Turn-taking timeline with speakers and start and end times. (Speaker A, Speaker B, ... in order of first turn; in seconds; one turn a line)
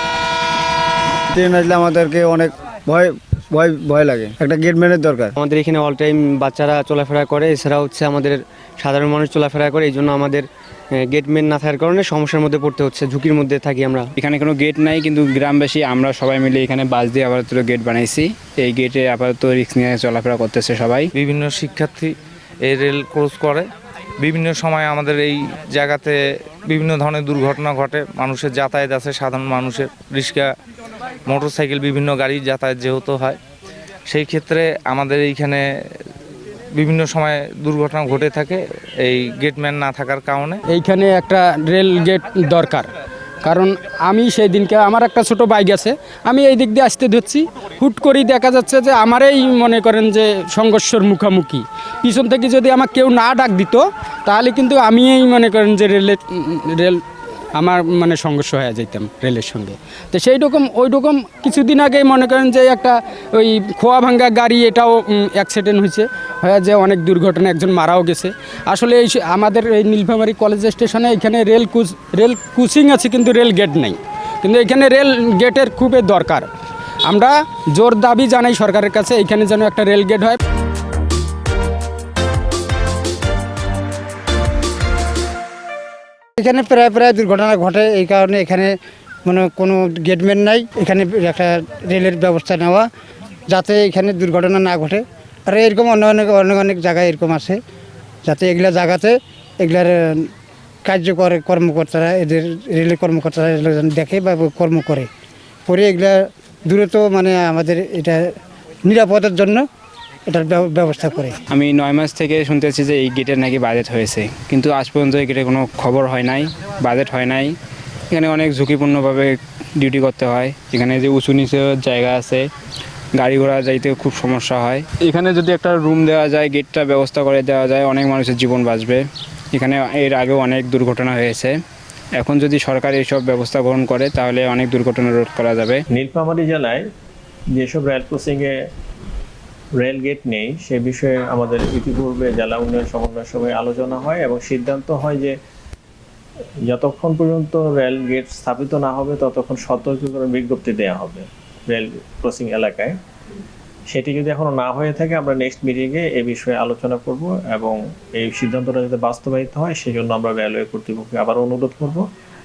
Speaker A: 1.4-3.0
Speaker A: 3.6-5.3
Speaker B: 5.4-10.5
Speaker B: 11.1-14.1
Speaker C: 14.2-21.1
Speaker D: 21.1-23.7
Speaker D: 24.2-30.5
Speaker D: 31.3-33.4
Speaker D: 34.1-35.6
Speaker D: 36.7-40.6
Speaker E: 40.7-42.9
Speaker E: 43.4-57.0
Speaker E: 57.5-76.5
Speaker E: 77.1-80.4
Speaker F: 86.4-88.7
Speaker F: 89.3-92.9
Speaker F: 93.5-97.6
Speaker F: 98.2-100.3
Speaker F: 100.8-105.1
Speaker F: 105.7-108.3
Speaker F: 108.8-109.7
Speaker F: 110.3-111.4
Speaker C: 111.5-117.5
Speaker C: 118.1-122.5
Speaker C: 123.2-131.6
Speaker C: 132.2-135.8
Speaker G: 135.9-136.8
Speaker G: 137.6-138.5
Speaker G: 139.8-145.3
Speaker G: 146.7-152.9
Speaker G: 153.9-162.1